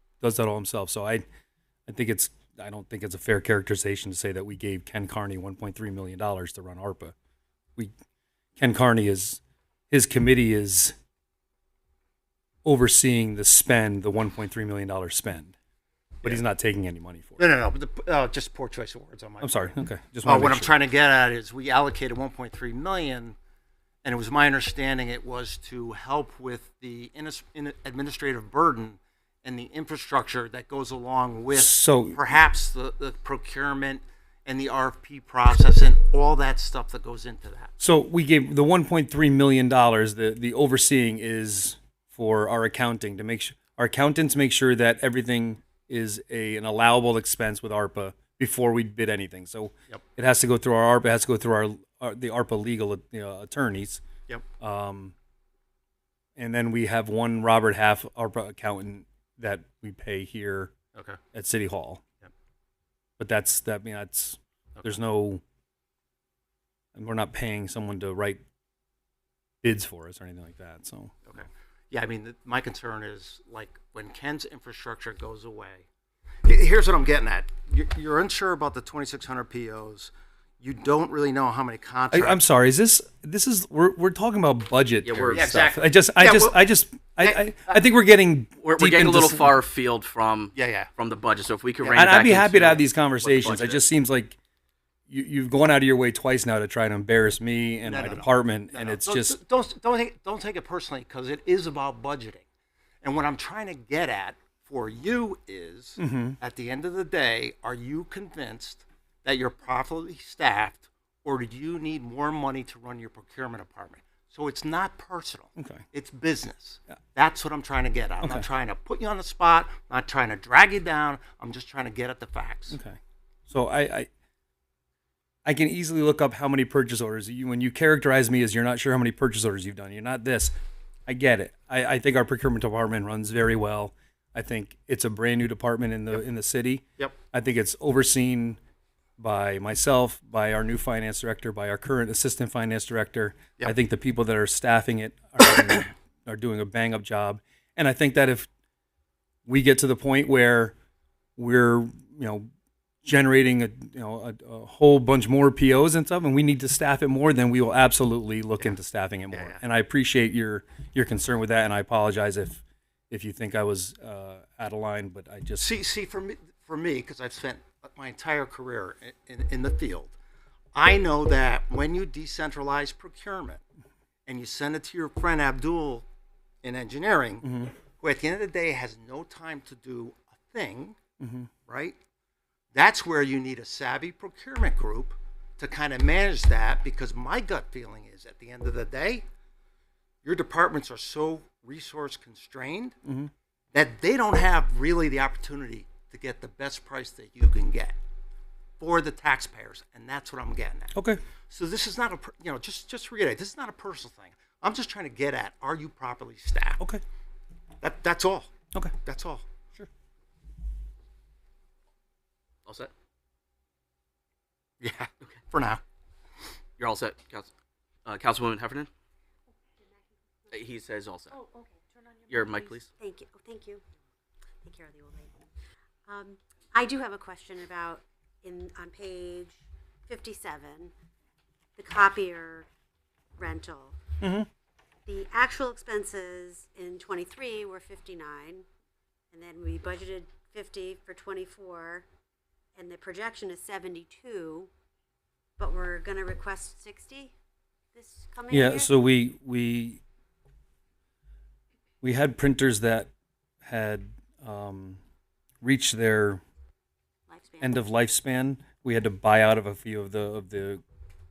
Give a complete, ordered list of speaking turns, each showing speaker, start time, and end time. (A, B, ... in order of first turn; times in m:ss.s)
0:00.2-0:01.2 A
0:01.9-0:07.1 A
0:08.6-0:10.9 A
0:12.6-0:15.5 A
0:16.2-0:17.4 A
0:17.4-0:19.6 B
0:19.4-0:20.7 A
0:20.2-0:23.4 B
0:24.0-0:37.7 B
0:31.5-0:32.2 A
0:37.8-0:54.0 A
0:54.6-0:55.1 A
0:56.4-1:00.7 A
1:00.9-1:01.2 B
1:01.3-1:02.0 A
1:03.2-1:05.4 A
1:06.9-1:08.4 A
1:09.6-1:11.4 A
1:11.3-1:15.9 B
1:16.4-1:22.4 B
1:22.1-1:29.5 A
1:25.0-1:25.5 C
1:25.3-1:26.6 B
1:27.2-1:27.8 B
1:28.6-1:33.8 C
1:30.5-1:30.9 B
1:31.8-1:32.7 B
1:32.0-1:34.4 A
1:35.1-1:39.4 A
1:37.8-1:42.4 B
1:43.0-2:02.8 B
1:46.0-1:46.4 A
1:55.6-1:55.8 A
2:02.7-2:04.1 A
2:05.4-2:10.5 A
2:11.1-2:18.6 A
2:19.2-2:28.5 A
2:29.4-2:30.8 A
2:31.4-2:32.5 A
2:33.0-2:45.7 A
2:39.3-2:39.6 B
2:45.6-2:50.1 B
2:50.7-2:53.6 B
2:54.2-2:56.0 B
2:56.6-2:57.4 B
2:57.4-2:57.7 A
2:58.0-3:01.0 B
3:01.2-3:01.5 A
3:01.7-3:02.0 B
3:02.7-3:09.2 B
3:10.2-3:13.0 B
3:13.0-3:13.3 A
3:13.7-3:18.0 B
3:18.8-3:20.9 B
3:20.9-3:21.2 A
3:21.5-3:26.8 B
3:27.8-3:28.5 B
3:29.0-3:29.4 B
3:32.6-3:32.9 C
3:34.8-3:35.8 B
3:36.8-3:37.5 C
3:38.0-3:38.9 C
3:40.5-3:41.4 C
3:42.3-3:42.9 C
3:43.0-3:43.8 D
3:44.6-3:45.3 D
3:46.1-3:50.9 D
3:51.8-3:52.7 D
3:53.4-3:54.0 D
3:54.2-3:54.5 A
3:55.1-3:58.6 D
3:59.3-4:02.0 D
4:02.8-4:04.7 D
4:05.6-4:07.3 D
4:07.9-4:08.9 D
4:08.5-4:10.0 A
4:12.0-4:13.1 A
4:13.6-4:15.0 A
4:15.6-4:16.4 A
4:17.3-4:17.8 D
4:17.6-4:20.8 A